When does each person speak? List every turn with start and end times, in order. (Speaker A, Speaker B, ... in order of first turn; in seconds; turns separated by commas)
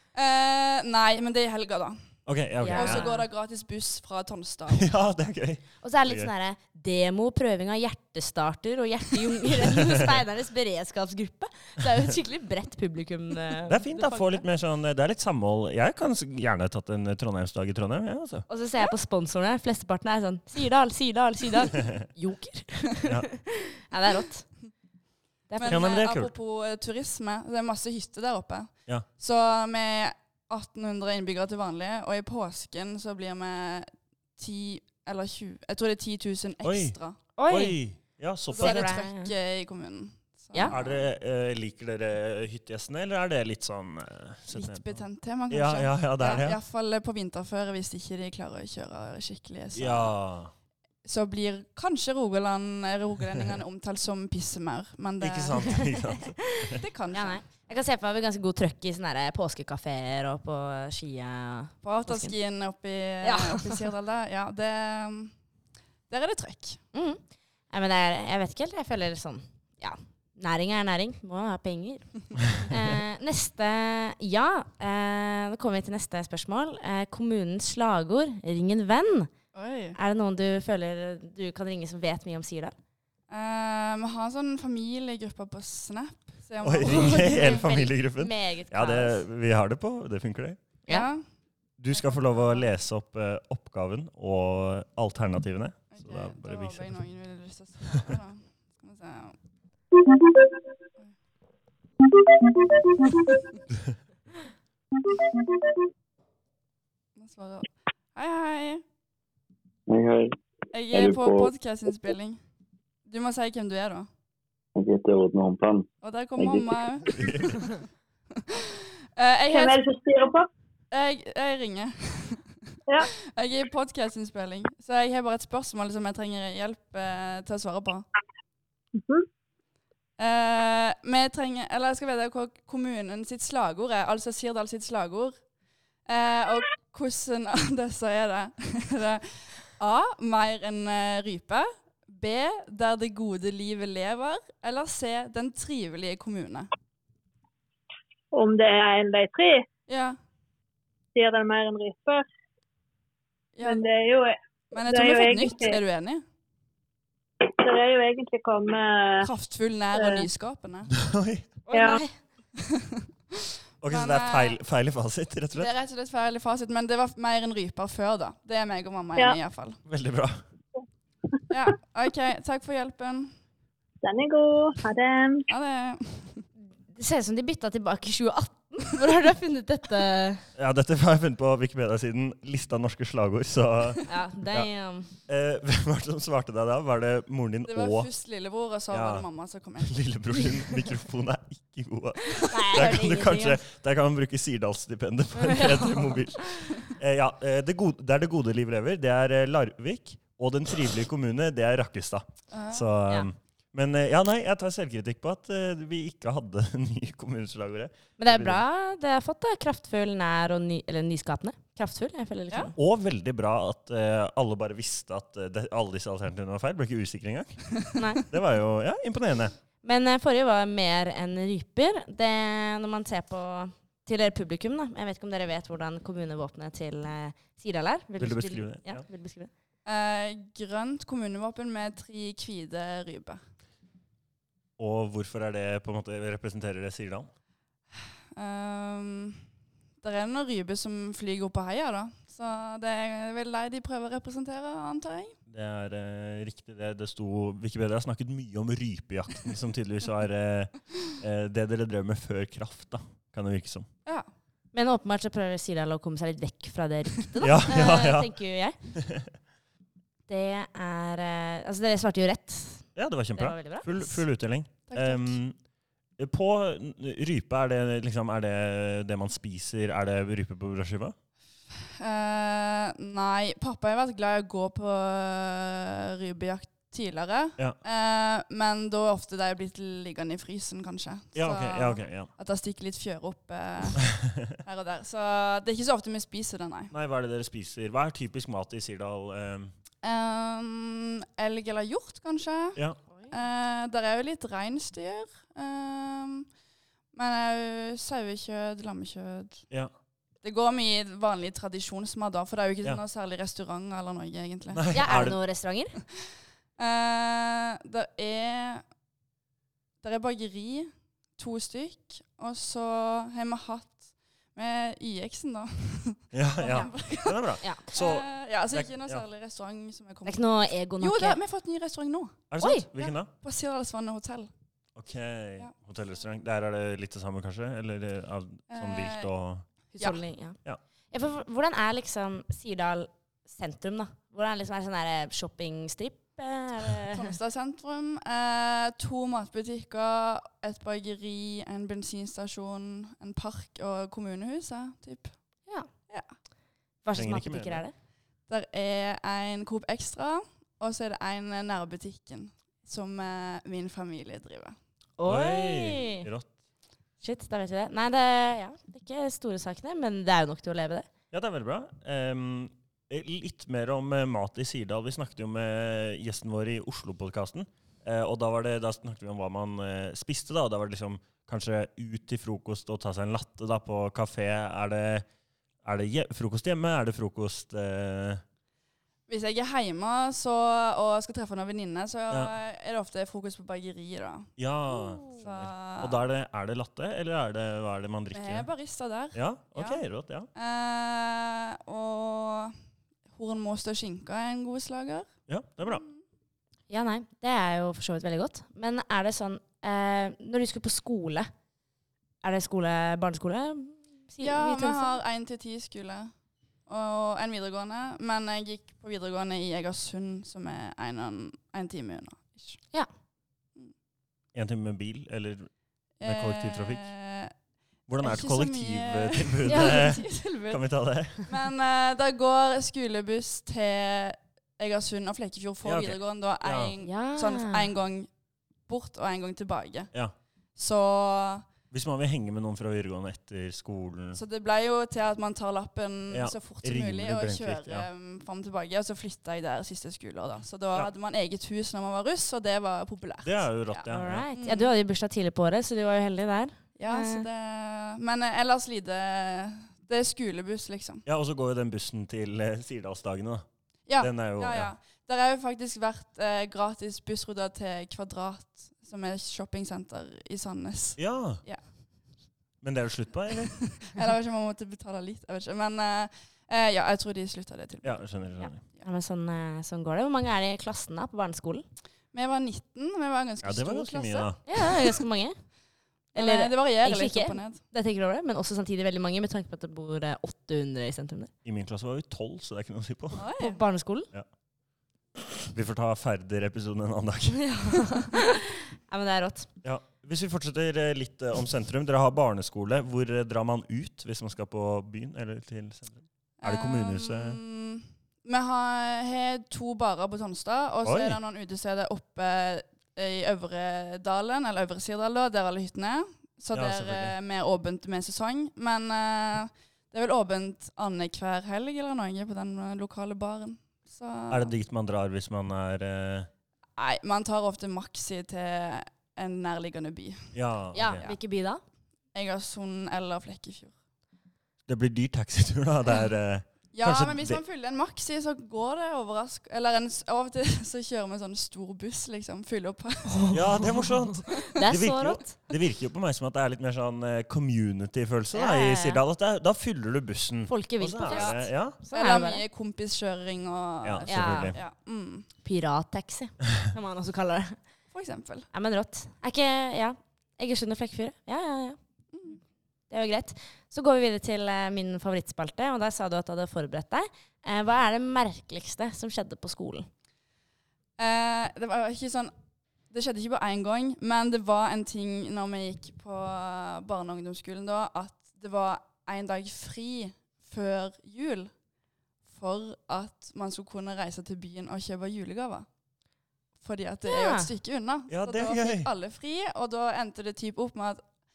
Speaker A: 0.1-2.0, Speaker B: 2.3-3.1, Speaker C: 2.6-3.3, Speaker A: 2.7-4.9, Speaker B: 4.7-6.3, Speaker C: 5.8-14.4, Speaker B: 9.6-10.2, Speaker B: 13.7-18.5, Speaker C: 18.5-24.5, Speaker C: 25.5-25.8, Speaker A: 25.6-37.2, Speaker B: 25.6-26.3, Speaker B: 36.6-37.0, Speaker C: 37.4-37.8, Speaker B: 37.5-38.9, Speaker A: 38.5-41.0, Speaker C: 38.6-39.3, Speaker B: 40.7-46.6, Speaker A: 44.5-50.1, Speaker B: 49.7-50.5, Speaker A: 51.0-55.9, Speaker B: 55.2-56.8, Speaker A: 56.8-57.4, Speaker C: 57.1-62.4, Speaker A: 61.8-65.3, Speaker C: 63.2-63.9, Speaker A: 66.1-66.8, Speaker C: 66.9-79.3, Speaker A: 79.5-80.0, Speaker C: 80.0-82.8, Speaker A: 83.3-87.7, Speaker B: 86.6-90.6, Speaker C: 86.9-89.2, Speaker A: 90.9-91.2, Speaker B: 91.8-97.0, Speaker A: 91.9-92.7, Speaker A: 95.9-99.4, Speaker A: 107.2-108.8, Speaker D: 109.9-110.4, Speaker A: 110.7-112.4, Speaker D: 110.9-111.5, Speaker A: 113.1-114.1, Speaker D: 114.8-117.0, Speaker A: 116.0-117.6, Speaker B: 117.1-117.7, Speaker A: 118.4-119.8, Speaker E: 119.5-120.5, Speaker A: 120.9-122.4, Speaker A: 123.0-128.1, Speaker E: 129.0-129.3, Speaker A: 130.2-135.3, Speaker A: 136.1-146.7, Speaker E: 148.3-149.7, Speaker A: 149.9-150.2, Speaker E: 151.2-152.3, Speaker A: 153.6-153.8, Speaker E: 153.6-155.8, Speaker A: 154.7-156.2, Speaker E: 157.4-159.3, Speaker A: 159.2-160.9, Speaker E: 159.9-160.3, Speaker B: 160.9-161.6, Speaker C: 161.7-162.1, Speaker E: 161.7-162.0, Speaker A: 162.6-163.1, Speaker B: 163.8-165.7, Speaker A: 163.8-164.6, Speaker A: 165.6-169.8, Speaker B: 169.9-170.4, Speaker A: 171.5-173.3, Speaker E: 174.0-175.5, Speaker A: 175.5-176.4, Speaker C: 176.9-180.4, Speaker B: 180.6-184.7, Speaker C: 184.1-185.1, Speaker B: 185.3-188.1, Speaker A: 187.7-190.0, Speaker B: 188.9-189.3, Speaker B: 189.8-208.6, Speaker C: 192.3-193.6, Speaker C: 195.4-196.7, Speaker A: 202.5-202.9, Speaker C: 208.2-212.7, Speaker B: 212.8-217.7, Speaker C: 217.9-218.2, Speaker B: 218.3-219.5, Speaker C: 219.8-229.5, Speaker B: 228.2-229.0, Speaker A: 229.9-233.4, Speaker B: 234.8-237.3, Speaker A: 238.3-239.4, Speaker A: 240.0-245.3, Speaker B: 245.5-253.9, Speaker C: 254.7-258.8, Speaker B: 257.4-258.3, Speaker B: 258.9-259.3, Speaker C: 260.3-264.2, Speaker B: 263.0-265.6, Speaker A: 264.9-265.4, Speaker B: 266.2-271.1, Speaker A: 272.0-286.9, Speaker B: 281.4-282.3, Speaker B: 284.0-284.6, Speaker B: 286.9-289.7, Speaker A: 290.0-296.5, Speaker A: 297.1-299.6, Speaker A: 300.4-304.9, Speaker B: 304.7-305.4, Speaker C: 304.9-306.0, Speaker A: 306.8-308.8, Speaker A: 310.0-314.0, Speaker A: 314.6-324.5, Speaker B: 316.3-319.2, Speaker C: 316.6-316.9, Speaker C: 317.6-317.9, Speaker C: 320.2-321.4, Speaker B: 322.5-323.3, Speaker C: 322.6-322.9, Speaker B: 325.0-329.6, Speaker A: 328.7-329.3, Speaker C: 329.9-330.6, Speaker C: 331.1-337.3, Speaker A: 337.1-345.4, Speaker C: 347.0-347.9, Speaker B: 347.1-347.8, Speaker A: 348.5-354.8, Speaker C: 355.2-356.3, Speaker B: 355.3-356.5, Speaker C: 357.2-361.1, Speaker B: 361.3-375.3, Speaker B: 375.8-378.4, Speaker A: 379.3-384.5, Speaker B: 384.6-388.7, Speaker C: 385.1-385.4, Speaker A: 385.4-386.2, Speaker A: 388.3-389.4, Speaker B: 389.3-390.5, Speaker A: 390.6-392.8, Speaker A: 393.3-395.3, Speaker B: 395.5-396.0, Speaker A: 395.8-396.2, Speaker C: 396.9-401.5, Speaker C: 402.4-405.2, Speaker A: 404.4-406.3, Speaker A: 406.9-412.8, Speaker B: 414.5-415.7, Speaker A: 416.2-417.5, Speaker B: 416.2-417.1, Speaker B: 418.1-421.4, Speaker A: 418.2-420.8, Speaker C: 419.7-420.1, Speaker A: 421.4-428.3, Speaker B: 425.8-426.9, Speaker C: 427.0-427.9, Speaker A: 428.9-430.1, Speaker A: 430.8-431.6, Speaker B: 431.9-434.4, Speaker A: 434.3-444.9, Speaker B: 436.3-438.1, Speaker B: 443.4-444.5, Speaker C: 444.1-447.5, Speaker A: 447.0-451.2, Speaker B: 451.3-453.7, Speaker A: 454.1-461.8, Speaker B: 454.2-454.9, Speaker B: 461.2-461.6, Speaker B: 462.8-463.8, Speaker A: 463.6-468.3, Speaker B: 468.0-468.8, Speaker C: 468.6-471.9, Speaker A: 472.3-474.5, Speaker B: 473.6-474.6, Speaker C: 474.7-475.6, Speaker A: 476.3-477.8, Speaker C: 476.4-481.5, Speaker B: 481.6-483.4, Speaker A: 483.3-483.8, Speaker C: 483.6-484.3, Speaker B: 485.6-487.7, Speaker C: 487.5-489.7, Speaker B: 489.8-497.6, Speaker A: 496.6-514.7, Speaker B: 501.1-501.4, Speaker B: 506.7-507.4, Speaker B: 514.5-516.5, Speaker A: 517.0-520.5, Speaker B: 520.5-521.3, Speaker C: 520.9-521.8, Speaker A: 522.3-523.9, Speaker B: 524.9-527.6, Speaker A: 526.9-533.6, Speaker C: 533.3-533.9, Speaker B: 533.5-542.0, Speaker C: 534.6-535.5, Speaker C: 538.5-539.2, Speaker C: 540.7-542.6, Speaker A: 541.3-541.6, Speaker A: 542.1-545.5, Speaker B: 544.0-544.8, Speaker C: 544.3-544.7, Speaker C: 545.6-547.8, Speaker A: 548.1-548.7, Speaker C: 548.7-552.0, Speaker C: 553.1-560.1, Speaker A: 561.2-562.5, Speaker A: 563.1-571.7, Speaker A: 572.5-575.9, Speaker A: 576.8-581.2, Speaker C: 577.3-577.7, Speaker B: 578.3-579.1